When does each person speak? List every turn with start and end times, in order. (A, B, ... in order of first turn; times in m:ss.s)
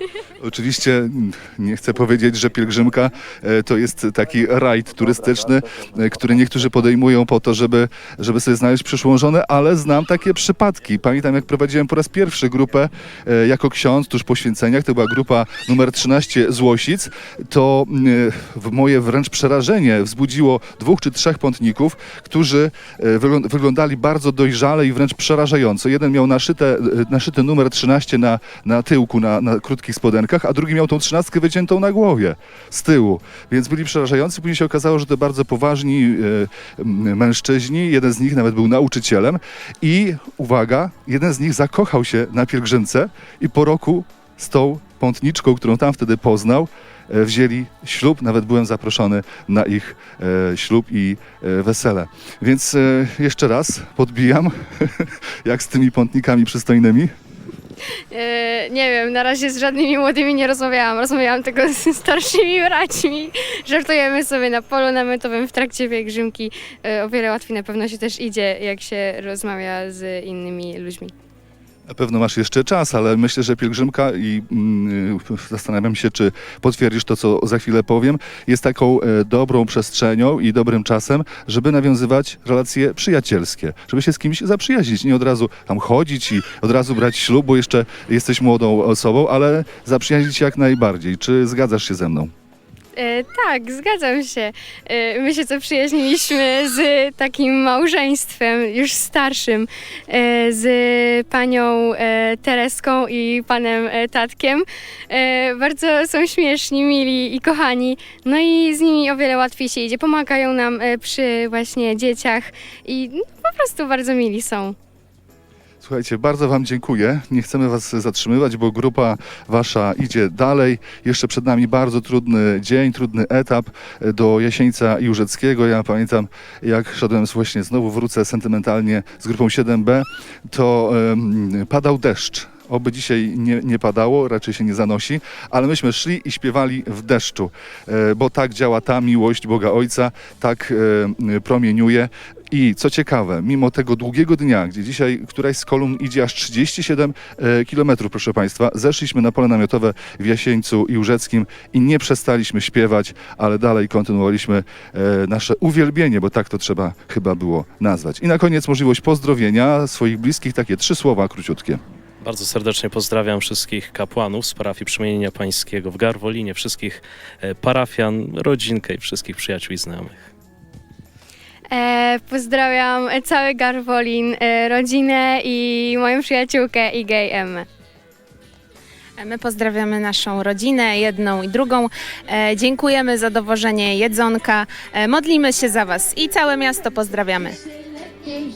0:00.4-0:57.1 A
0:58.1-1:11.1 B
1:11.9-1:32.3 A
1:33.0-1:54.8 B
1:55.8-2:41.8 A
2:42.2-2:50.3 C
2:51.7-2:57.7 B
2:59.2-3:07.6 D